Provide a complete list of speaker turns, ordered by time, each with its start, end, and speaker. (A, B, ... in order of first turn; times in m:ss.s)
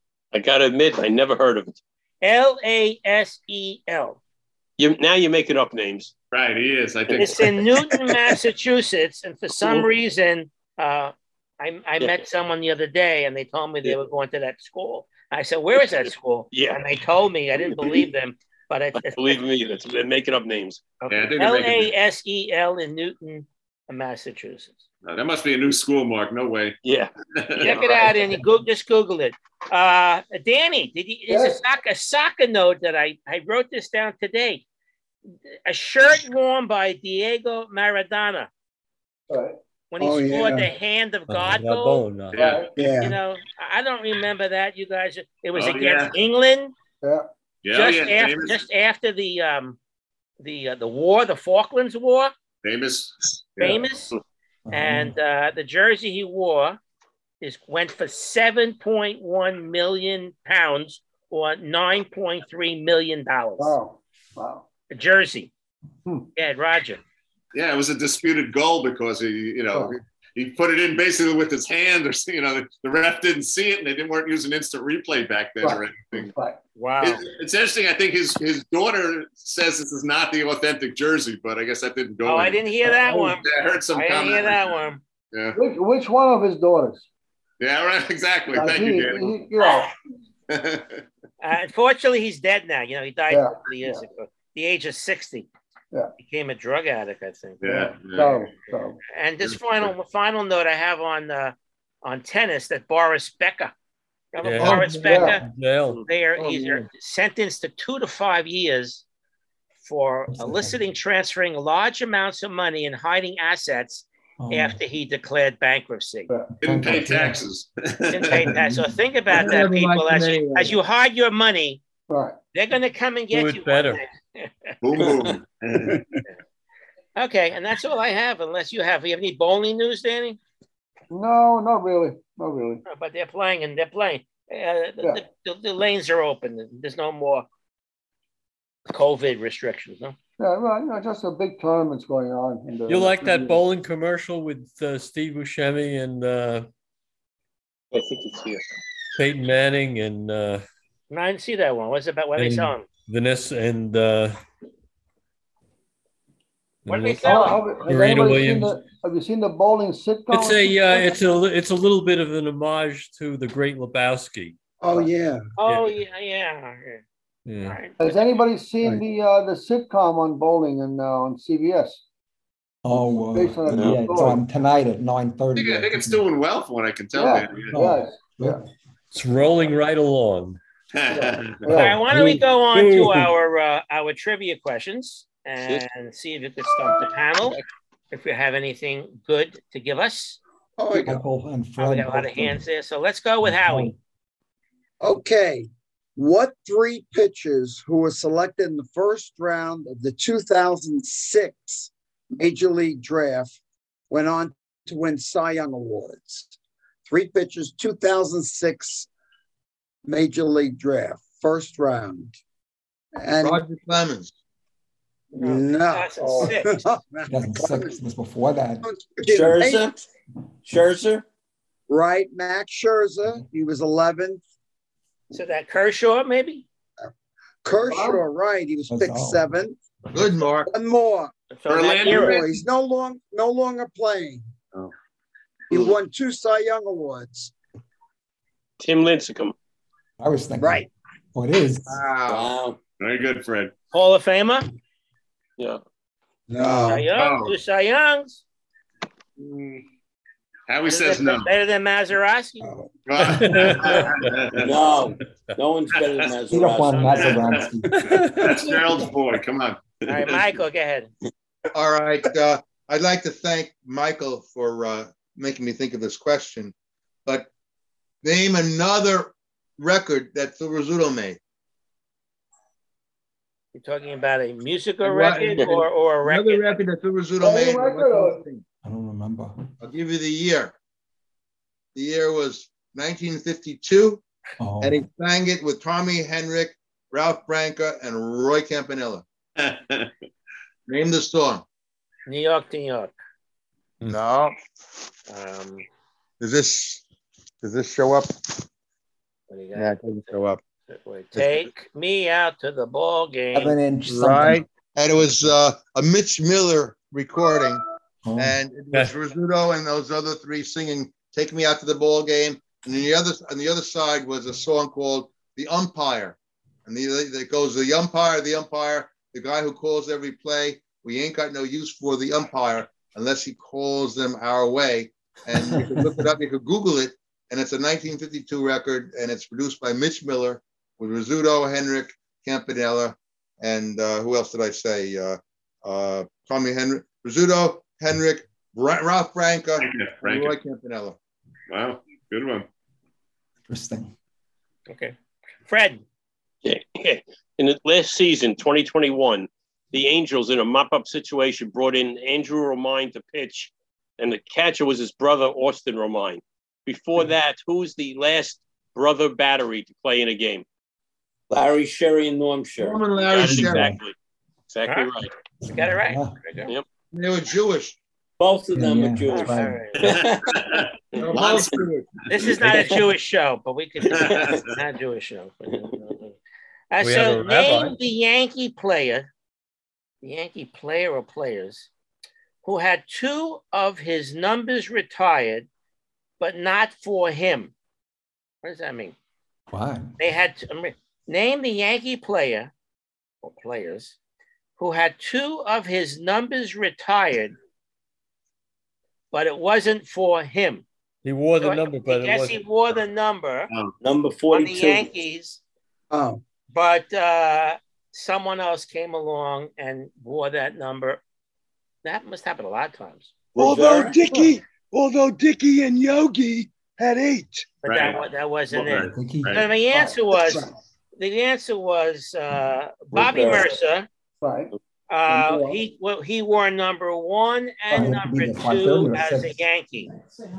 0:00.3-0:01.8 A
0:02.2-0:04.2 B
0:04.8-0:06.1 A
0:06.3-0:07.6 C
0:07.1-0:07.4 A
0:07.2-0:19.4 B
0:16.5-0:16.8 A
0:19.0-0:20.8 A
0:21.0-0:24.8 B
0:21.1-0:21.9 C
0:25.0-0:26.8 C
0:26.8-0:27.1 A
0:27.3-0:28.0 C
0:27.6-0:34.6 B
0:27.6-0:28.0 A
0:31.3-0:31.6 D
0:35.6-0:38.5 B
0:39.3-0:39.6 D
0:39.9-0:42.1 B
0:40.0-0:40.7 E
0:41.3-0:42.6 F
0:42.3-0:42.7 C
0:42.3-0:42.7 D
0:42.8-0:43.2 E
0:43.0-0:46.7 B
0:45.5-0:46.2 C
0:47.0-0:47.3 D
0:47.6-0:48.6 C
0:47.7-0:49.8 B
0:50.4-0:52.3 B
0:52.6-0:53.8 C
0:53.6-0:54.1 B
0:54.6-0:55.2 G
0:54.7-0:56.8 B
0:57.4-1:03.8 B
1:03.6-1:04.6 D
1:04.9-1:05.5 B
1:06.3-1:07.0 B
1:07.5-1:16.3 C
1:15.6-1:16.6 D
1:16.8-1:17.2 B
1:17.0-1:24.8 C
1:22.2-1:25.0 B
1:25.3-1:25.6 C
1:25.5-1:27.0 D
1:27.6-1:29.4 C
1:28.5-1:29.9 D
1:29.6-1:29.8 B
1:30.5-1:31.0 C
1:31.4-1:35.5 B
1:33.3-1:34.0 D
1:36.2-1:37.9 B
1:37.6-1:38.5 C
1:37.7-1:39.0 D
1:39.1-1:43.7 B
1:39.4-1:39.9 C
1:44.3-1:45.4 B
1:44.4-1:46.0 F
1:44.6-1:45.3 H
1:45.0-1:45.4 D
1:46.0-1:49.0 B
1:46.4-1:46.8 H
1:49.8-1:56.3 B
1:50.3-1:50.8 G
1:54.4-1:54.8 G
1:56.6-1:58.7 C
1:56.6-1:57.4 G
1:58.1-2:01.8 B
1:59.3-2:00.8 H
2:02.1-2:02.4 D
2:02.5-2:04.7 B
2:03.3-2:04.0 F
2:04.8-2:06.0 C
2:07.2-2:10.4 B
2:11.1-2:12.8 D
2:12.9-2:17.4 B
2:18.9-2:20.1 B
2:20.4-2:23.6 D
2:22.9-2:26.7 F
2:27.9-2:28.6 A
2:29.2-2:30.6 F
2:31.1-2:32.8 B
2:32.4-2:34.4 F
2:36.8-2:38.8 F
2:36.9-2:37.6 B
2:37.2-2:41.1 D
2:40.3-2:44.6 F
2:44.8-2:45.5 E
2:45.6-2:47.0 B
2:45.6-2:46.0 F
2:47.4-2:47.8 F
2:47.6-2:48.2 B
2:48.0-2:52.0 D
2:52.8-2:56.2 G
2:53.3-2:54.4 D
2:55.5-2:57.8 C
2:57.1-2:58.6 D
2:57.7-2:58.6 G
2:59.1-3:00.6 F
3:00.9-3:01.8 C
3:01.1-3:02.0 D
3:01.7-3:07.6 B
3:02.1-3:03.2 G
3:08.1-3:10.4 B
3:10.8-3:11.2 E
3:10.9-3:12.6 G
3:11.8-3:13.9 B
3:13.4-3:14.0 G
3:15.0-3:23.6 E
3:24.1-3:26.5 E
3:27.1-3:29.1 E
3:30.0-3:32.4 E
3:33.2-3:33.6 E
3:33.4-3:34.3 H
3:35.3-3:36.8 B
3:35.4-3:37.9 E
3:37.3-3:38.9 G
3:38.8-3:39.9 E
3:39.3-3:40.0 I
3:40.6-3:41.2 I
3:41.9-3:44.4 E
3:45.3-3:46.6 B
3:47.6-3:49.8 E
3:47.9-3:48.2 D
3:48.9-3:49.4 G
3:50.1-3:50.7 H
3:50.7-3:51.3 E
3:51.5-3:52.4 B
3:51.7-3:52.5 C
3:52.0-3:54.5 E
3:55.7-3:57.5 E
3:58.8-3:59.5 A
4:00.2-4:02.0 G
4:00.6-4:00.9 E
4:01.9-4:02.5 H
4:02.3-4:02.8 I
4:03.0-4:03.7 C
4:03.9-4:04.7 B
4:06.5-4:07.1 E
4:06.6-4:08.4 B
4:07.1-4:07.5 C
4:09.4-4:09.8 H
4:10.7-4:11.5 C
4:10.9-4:12.6 B
4:12.6-4:12.9 E
4:13.0-4:14.9 C
4:13.3-4:14.4 F
4:14.6-4:17.4 I
4:15.9-4:16.3 C
4:16.5-4:18.2 G
4:16.9-4:17.4 B
4:17.9-4:19.0 F
4:18.4-4:20.6 C
4:20.0-4:21.1 B
4:21.7-4:26.7 H
4:28.2-4:31.4 H
4:33.7-4:36.8 B
4:35.0-4:38.6 H
4:37.4-4:38.4 D
4:38.8-4:39.7 G
4:39.8-4:40.7 H
4:41.9-4:44.2 H
4:44.6-4:45.1 G
4:44.8-4:49.2 H
4:49.6-4:50.2 C
4:50.9-4:51.6 H
4:52.2-4:53.1 B
4:54.0-4:54.6 H
4:55.3-4:55.8 B
4:56.4-4:57.0 H
4:57.6-4:58.6 H
4:59.5-5:03.7 B
4:59.7-5:00.6 H
5:01.3-5:01.7 H
5:03.5-5:04.6 G
5:04.0-5:07.8 H
5:08.2-5:08.6 G
5:08.4-5:41.2 H
5:39.8-5:40.6 C
5:41.7-5:42.7 C
5:43.7-5:44.1 G
5:44.9-5:45.1 B
5:45.6-5:46.0 B
5:46.6-6:00.6 A
6:01.5-6:03.1 I
6:02.8-6:04.0 H
6:03.3-6:04.1 A
6:04.7-6:05.3 A
6:04.8-6:05.1 B
6:05.6-6:06.4 G
6:05.7-6:06.7 B
6:07.1-6:08.0 H
6:08.4-6:10.4 I
6:08.7-6:09.8 G
6:09.3-6:10.2 B
6:10.0-6:13.0 C
6:11.2-6:12.1 H
6:12.3-6:16.3 B
6:14.1-6:14.6 C
6:16.9-6:19.3 B
6:17.0-6:17.9 F
6:20.2-6:21.9 B
6:22.6-6:25.7 B
6:26.4-6:27.7 B
6:28.6-6:29.1 B
6:29.7-6:30.1 G
6:30.2-6:32.7 B
6:33.4-6:34.2 B
6:34.8-6:37.6 B
6:39.3-6:40.8 B
6:41.2-6:42.6 F
6:41.6-6:43.7 B
6:44.0-6:45.1 I
6:44.5-6:45.6 B
6:46.1-6:46.4 E
6:46.7-6:51.2 B
6:52.0-6:53.3 B
6:53.6-6:57.8 J
6:53.6-6:54.2 I
6:57.8-7:00.6 B
6:57.9-6:58.2 A
6:58.7-6:59.6 C
6:58.9-6:59.6 G
6:59.9-7:00.7 E
7:01.2-7:04.1 B
7:03.1-7:03.7 I
7:04.4-7:04.7 D
7:05.1-7:10.1 B
7:05.3-7:05.8 E
7:07.9-7:09.6 G